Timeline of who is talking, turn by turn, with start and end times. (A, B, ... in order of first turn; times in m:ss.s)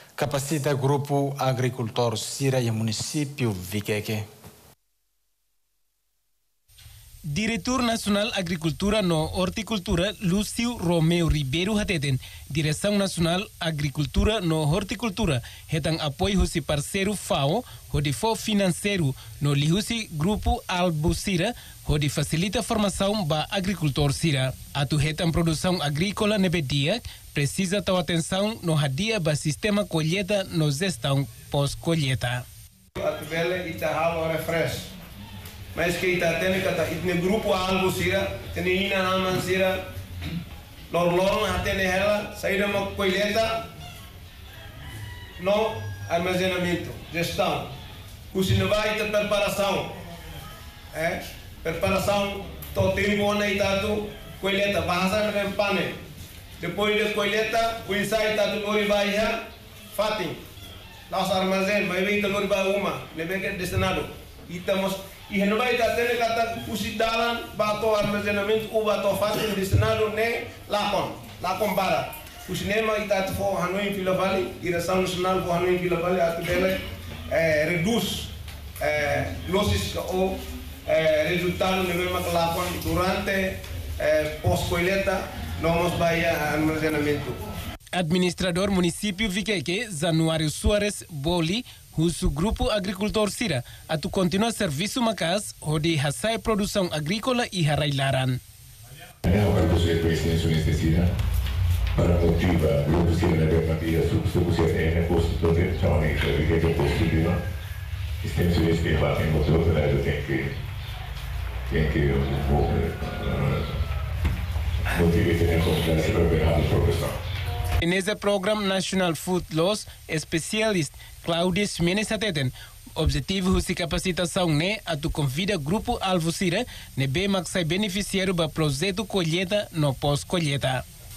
0:00.2-0:04.3 A
0:07.3-0:32.4 B
0:33.0-0:34.9 C
0:35.7-0:39.8 C
0:40.9-0:43.6 C
0:45.4-0:47.7 C
0:48.3-0:50.0 C
0:50.9-0:56.0 C
0:56.6-0:59.4 C
0:59.9-1:00.4 C
1:01.1-1:27.4 C
1:27.9-1:38.4 B
1:39.2-1:41.1 D
1:42.0-1:47.4 D
1:48.2-1:50.5 D
1:51.7-1:53.8 D
1:54.9-1:57.2 D
1:57.8-2:10.8 B